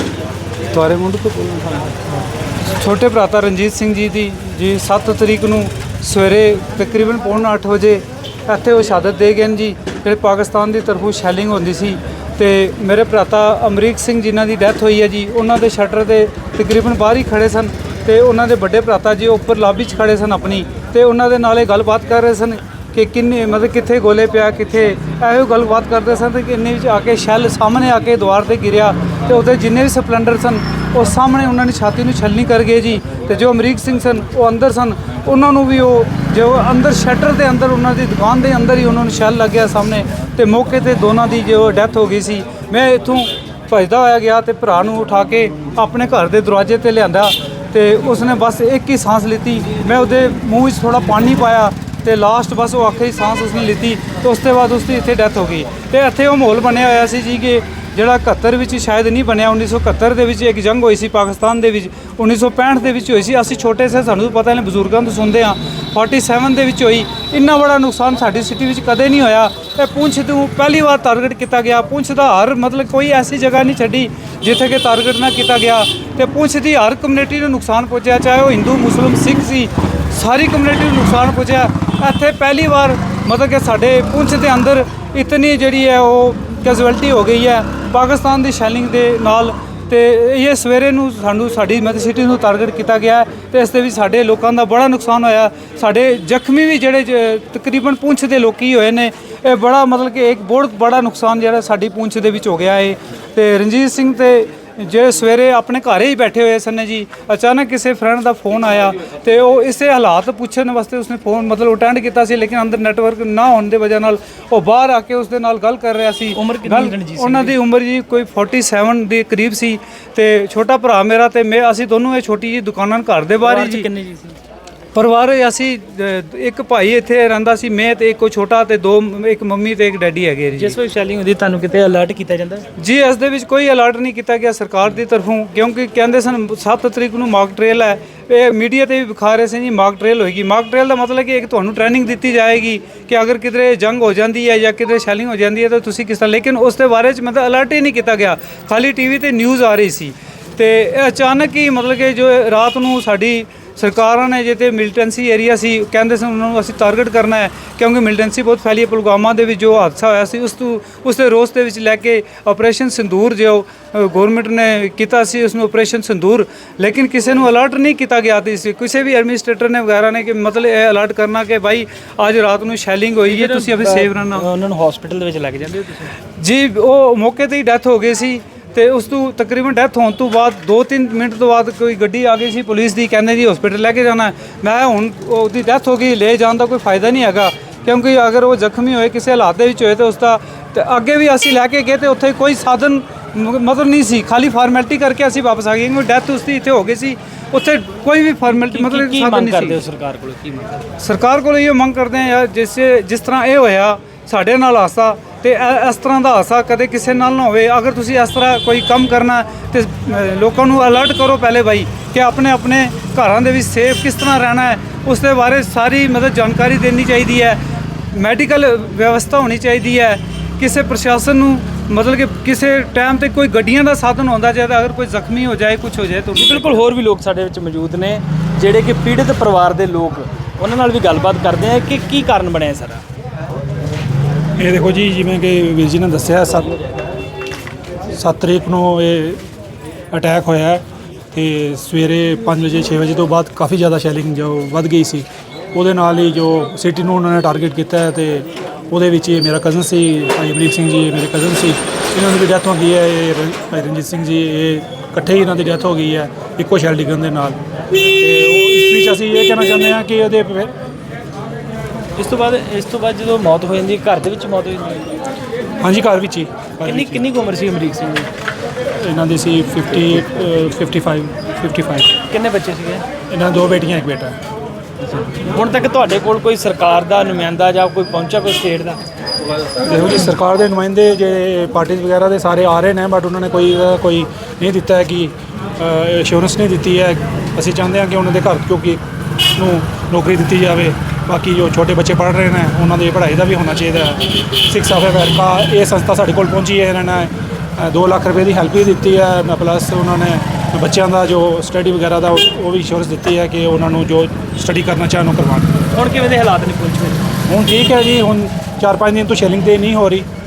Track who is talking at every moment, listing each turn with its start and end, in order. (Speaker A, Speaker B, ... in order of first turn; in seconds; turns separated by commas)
Speaker A: 0.7-123.9, Speaker B: 116.3-117.5, Speaker B: 123.4-124.4, Speaker A: 124.9-130.8, Speaker B: 130.6-132.7, Speaker A: 132.8-174.5, Speaker B: 173.3-176.1, Speaker A: 176.3-199.8, Speaker B: 198.4-200.8, Speaker A: 201.0-217.6, Speaker A: 218.1-226.8, Speaker B: 226.3-233.0, Speaker C: 234.6-236.7, Speaker C: 238.1-239.4, Speaker C: 240.1-257.6, Speaker C: 258.2-260.7, Speaker B: 262.2-265.1, Speaker C: 265.8-267.2, Speaker B: 266.8-268.3, Speaker C: 268.9-272.1, Speaker B: 272.3-273.0, Speaker C: 273.3-274.4, Speaker B: 275.1-279.0, Speaker C: 279.8-289.0, Speaker C: 289.5-305.8, Speaker B: 305.9-307.3, Speaker C: 307.5-310.3